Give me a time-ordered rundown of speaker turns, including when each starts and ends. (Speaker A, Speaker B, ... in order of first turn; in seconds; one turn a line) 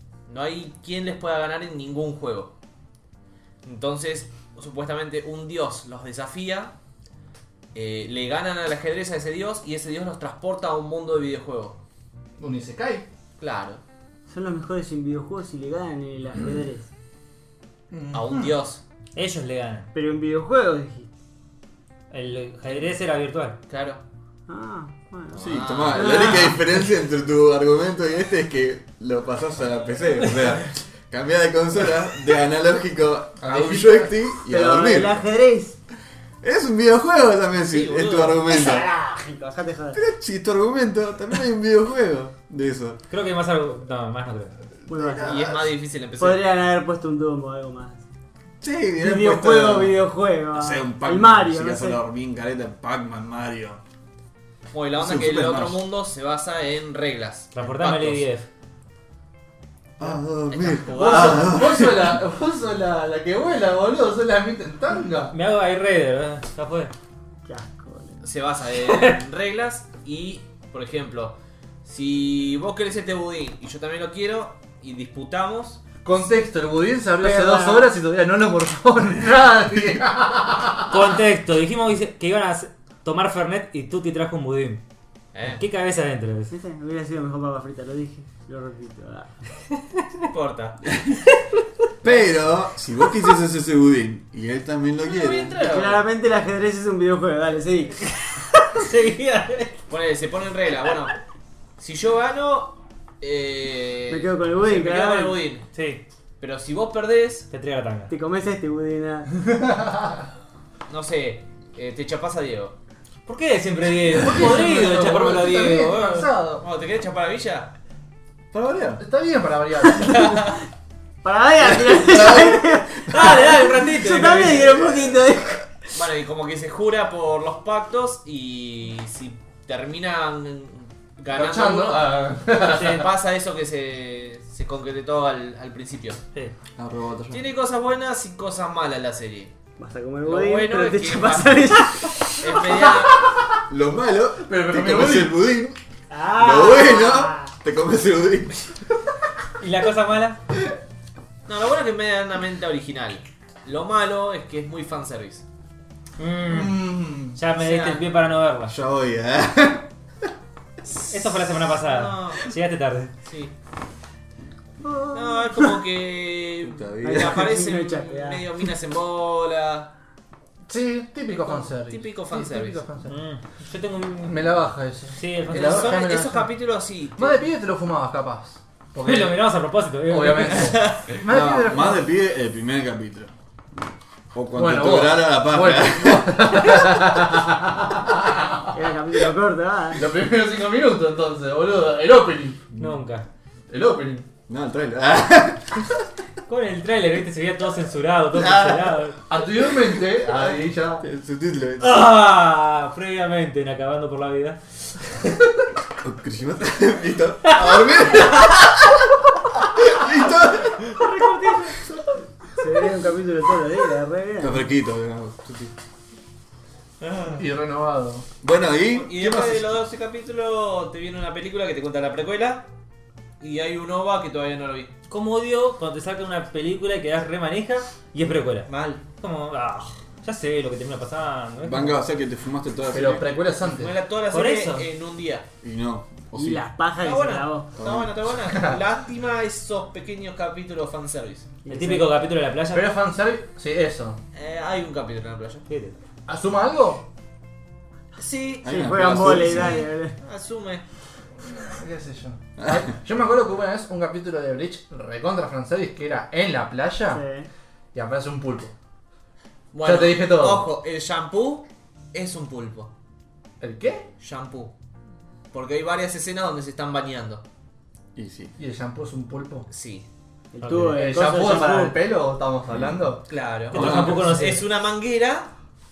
Speaker A: 0.3-2.5
Speaker A: 3.6-6.7
Speaker A: 7.7-11.8
Speaker B: 12.4-13.1
Speaker A: 13.4-13.8
Speaker C: 14.3-16.9
Speaker B: 17.9-18.5
Speaker A: 18.1-18.8
Speaker D: 19.1-19.9
Speaker C: 19.9-21.1
Speaker D: 22.1-23.6
Speaker A: 23.7-24.0
Speaker C: 24.5-26.6
Speaker A: 25.3-26.4
Speaker E: 25.4-35.2
Speaker B: 33.4-34.2
Speaker C: 34.5-35.8
Speaker E: 36.4-38.9
Speaker A: 37.7-38.4
Speaker C: 38.5-40.0
Speaker E: 39.9-43.0
Speaker D: 43.1-44.5
Speaker C: 44.9-45.5
Speaker E: 44.9-45.6
Speaker A: 45.2-46.4
Speaker C: 46.2-48.0
Speaker E: 48.6-50.0
Speaker C: 49.0-52.0
Speaker E: 50.5-53.8
Speaker A: 54.7-58.3
Speaker E: 55.0-55.8
Speaker D: 57.5-58.5
Speaker E: 60.0-62.2
Speaker A: 60.5-61.5
Speaker B: 60.9-65.3
Speaker D: 65.3-66.9
Speaker C: 67.4-68.2
Speaker A: 68.2-75.8
Speaker D: 68.8-69.2
Speaker B: 76.0-80.9
Speaker C: 77.2-77.9
Speaker D: 80.9-84.8
Speaker A: 85.3-85.6
Speaker D: 85.5-86.5
Speaker C: 86.5-89.3
Speaker A: 90.3-90.8
Speaker E: 92.0-95.6
Speaker A: 95.0-96.0
Speaker C: 95.6-98.3
Speaker D: 98.7-99.8
Speaker A: 99.9-101.2
Speaker A: 101.8-105.7
Speaker C: 104.1-105.4
Speaker D: 105.7-106.0
Speaker A: 106.4-107.5
Speaker D: 107.5-108.1
Speaker C: 108.1-109.3
Speaker B: 109.5-110.2
Speaker A: 110.9-112.7
Speaker D: 113.2-116.3
Speaker B: 114.2-116.6
Speaker A: 116.6-117.7
Speaker E: 118.5-119.0
Speaker B: 119.0-120.2
Speaker A: 120.0-120.6
Speaker C: 120.1-120.4
Speaker C: 121.2-125.9
Speaker E: 121.7-123.2
Speaker D: 123.1-124.6
Speaker A: 123.8-124.5
Speaker A: 125.9-136.2
Speaker B: 131.3-133.1
Speaker D: 132.7-133.1
Speaker E: 136.8-137.4
Speaker A: 137.3-139.5
Speaker C: 139.8-142.9
Speaker A: 140.2-143.3
Speaker E: 143.7-145.8
Speaker B: 144.4-145.4
Speaker C: 146.1-147.5
Speaker E: 146.3-148.7
Speaker D: 149.6-150.4
Speaker A: 151.4-155.4
Speaker D: 156.2-156.8
Speaker B: 156.5-157.4
Speaker D: 157.3-158.7
Speaker A: 157.6-158.0
Speaker E: 158.7-160.3
Speaker A: 160.9-162.4
Speaker D: 161.1-163.1
Speaker A: 163.2-163.5
Speaker C: 164.8-165.8
Speaker A: 165.1-169.9
Speaker E: 166.6-167.4
Speaker C: 167.0-168.4
Speaker B: 170.7-173.2
Speaker A: 171.4-172.8
Speaker D: 173.0-176.0
Speaker B: 174.2-176.5
Speaker A: 175.5-177.4
Speaker B: 177.2-179.4
Speaker D: 179.0-180.8
Speaker B: 180.1-182.1
Speaker A: 180.6-181.1
Speaker E: 181.2-183.3
Speaker E: 184.3-186.8
Speaker B: 184.5-188.7
Speaker C: 188.7-190.1
Speaker B: 189.9-192.6
Speaker D: 192.8-193.2
Speaker B: 193.7-194.3
Speaker E: 194.5-195.9
Speaker D: 196.5-199.2
Speaker E: 198.4-198.8
Speaker B: 199.3-201.0
Speaker E: 201.0-202.0
Speaker D: 201.8-204.6
Speaker E: 206.0-209.1
Speaker E: 209.7-211.0
Speaker A: 211.0-211.7
Speaker D: 211.1-211.7
Speaker C: 212.6-214.6
Speaker E: 214.4-215.7
Speaker A: 217.0-217.4
Speaker B: 217.4-218.2
Speaker E: 218.4-219.7
Speaker A: 218.9-222.7
Speaker A: 223.4-224.9
Speaker D: 225.1-232.0
Speaker A: 228.7-229.0
Speaker E: 231.6-233.3
Speaker B: 232.9-233.9
Speaker A: 233.6-235.5
Speaker D: 234.3-234.9
Speaker E: 235.6-236.6
Speaker C: 236.3-237.7
Speaker A: 237.0-241.5
Speaker E: 237.8-238.1
Speaker B: 238.5-238.8
Speaker C: 241.6-242.1
Speaker D: 241.7-242.9
Speaker B: 242.7-244.2
Speaker A: 244.3-245.7
Speaker D: 245.7-245.9
Speaker B: 246.3-247.0
Speaker A: 248.1-248.6
Speaker E: 248.6-249.9
Speaker C: 248.6-250.2
Speaker A: 249.4-250.8
Speaker B: 251.4-257.2
Speaker E: 252.6-252.9
Speaker C: 257.1-257.5
Speaker B: 257.9-258.7
Speaker A: 259.7-262.9
Speaker B: 259.8-260.7
Speaker B: 263.6-264.1
Speaker A: 264.2-264.7
Speaker A: 265.5-267.4
Speaker E: 268.1-268.5
Speaker B: 268.6-269.7
Speaker A: 269.7-270.1
Speaker C: 270.5-272.0
Speaker D: 270.6-271.1
Speaker B: 270.9-273.2
Speaker A: 273.3-275.5
Speaker D: 273.7-274.6
Speaker E: 273.7-274.2